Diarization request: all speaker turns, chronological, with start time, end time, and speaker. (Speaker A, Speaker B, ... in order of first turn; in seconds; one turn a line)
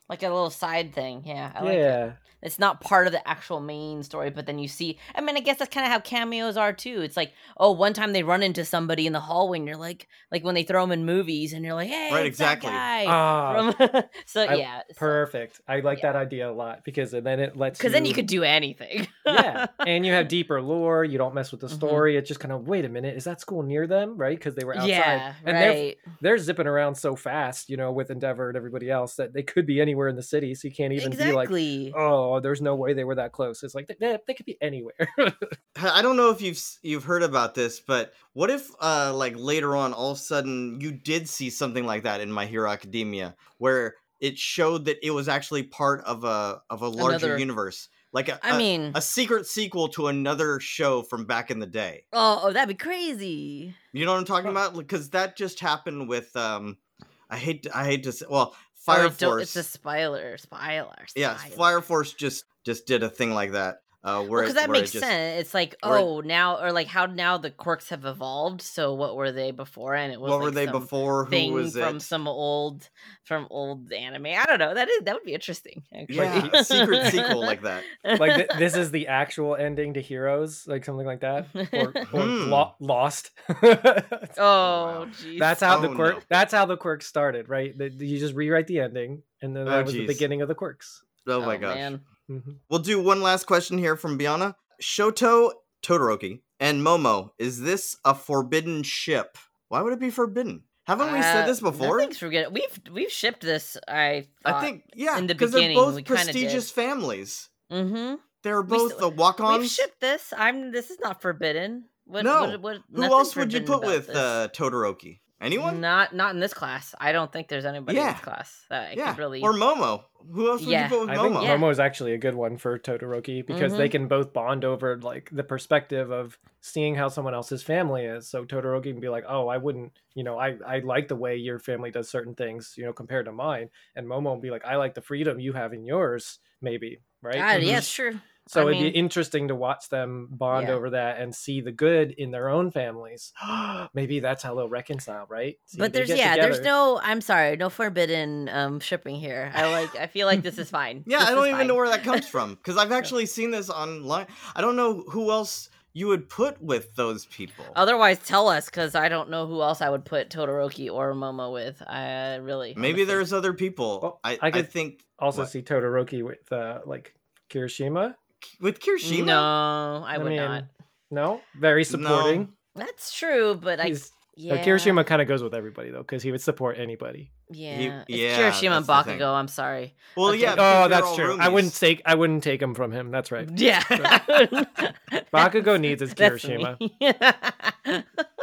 Speaker A: 0.1-15.2
Speaker B: 1.6-2.2
Speaker C: 12.1-12.8
Speaker B: 13.0-13.7
Speaker B: 14.4-18.2
Speaker A: 17.7-20.2
Speaker B: 19.3-35.5
Speaker A: 21.7-22.1
Speaker A: 24.7-26.0
Speaker A: 31.0-31.9
Speaker C: 35.7-52.0
Speaker A: 47.0-47.5
Speaker A: 48.4-49.0
Speaker A: 52.1-53.8
Speaker C: 53.9-59.6
Speaker A: 58.9-61.8
Speaker C: 61.1-65.1
Speaker A: 64.3-78.8
Speaker C: 65.8-66.1
Speaker C: 70.2-72.1
Speaker C: 76.1-77.8
Speaker B: 76.2-77.0
Speaker B: 78.2-84.3
Speaker A: 81.5-81.9
Speaker C: 82.1-82.7
Speaker A: 84.4-85.8
Speaker C: 84.6-85.1
Speaker B: 85.4-91.0
Speaker C: 85.7-86.2
Speaker C: 89.6-90.3
Speaker C: 91.2-91.9
Speaker A: 91.4-92.0
Speaker B: 92.3-92.6
Speaker C: 92.7-102.1
Speaker A: 101.0-106.7
Speaker C: 104.4-107.5
Speaker A: 107.7-114.3
Speaker C: 108.4-109.8
Speaker C: 112.2-115.8
Speaker A: 115.5-119.5
Speaker C: 117.9-118.2
Speaker C: 118.9-121.5
Speaker A: 120.6-121.7
Speaker B: 121.1-137.9
Speaker A: 123.5-123.9
Speaker A: 137.3-139.0
Speaker C: 137.6-137.8
Speaker B: 138.5-146.7
Speaker A: 140.5-140.8
Speaker A: 145.8-152.3
Speaker C: 151.1-157.8
Speaker A: 157.7-163.2
Speaker C: 162.8-165.5
Speaker B: 164.0-168.2
Speaker C: 168.4-169.5
Speaker A: 169.0-170.7
Speaker B: 170.1-172.5
Speaker C: 171.9-172.5
Speaker A: 172.8-175.1
Speaker B: 173.8-177.3
Speaker A: 177.5-180.6
Speaker C: 177.7-179.3
Speaker C: 180.2-181.7
Speaker B: 180.4-184.2
Speaker A: 183.4-188.3
Speaker C: 184.0-184.2
Speaker B: 185.3-186.8